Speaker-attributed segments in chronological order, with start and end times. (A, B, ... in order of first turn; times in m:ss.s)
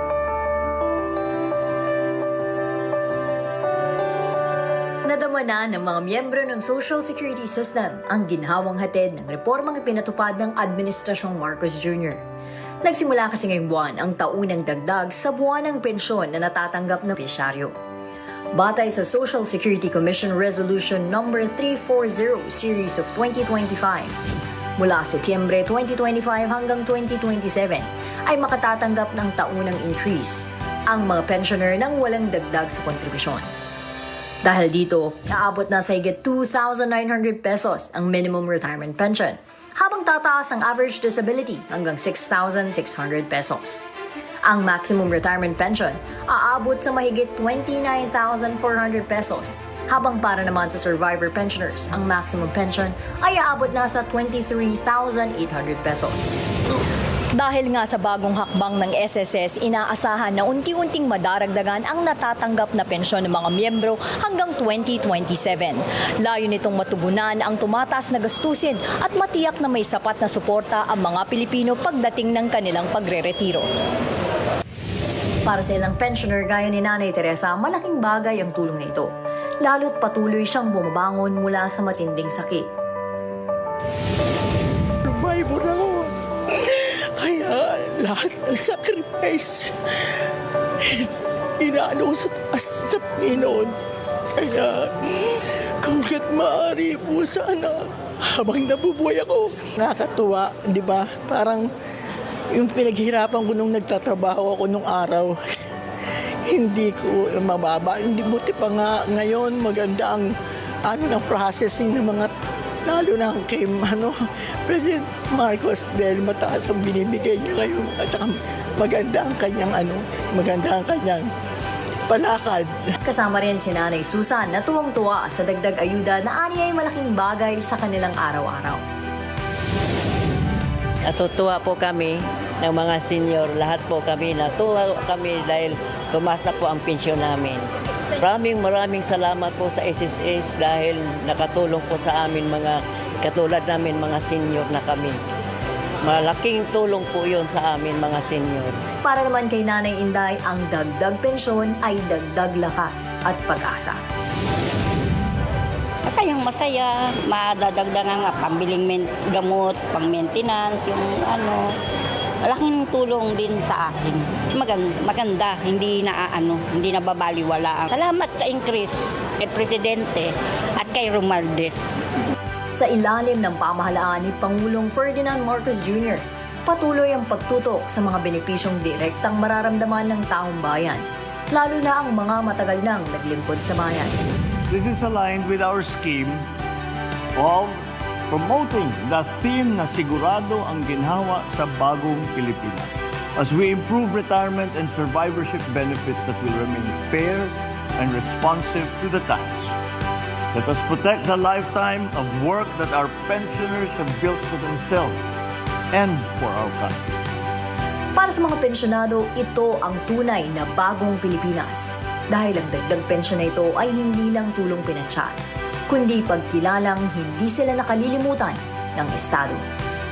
0:05.0-0:12.2 A
0:12.8-0:17.7 A
0:18.5-0:24.1 A
0:24.8-0:33.4 A
0:34.4-0:43.8 A
0:44.5-0:56.3 A
0:57.3-1:13.7 A
1:15.4-1:19.1 A
1:19.6-1:22.7 A
1:25.0-1:30.2 B
1:30.8-1:33.8 B
1:34.4-1:41.7 B
1:42.5-1:45.4 B
1:46.5-1:50.3 B
1:50.8-1:52.3 B
1:52.8-2:01.3 B
2:02.1-2:02.7 B
2:03.0-2:08.8 A
2:11.0-2:25.2 C
2:26.0-2:28.8 C
2:29.0-2:34.0 A
2:36.0-2:41.8 D
2:42.4-2:52.2 D
2:52.7-3:04.2 A
3:04.7-3:06.4 E
3:07.4-3:07.8 E
3:08.3-3:19.7 E
3:20.5-3:25.3 E
3:25.9-3:27.1 E
3:28.2-3:39.6 A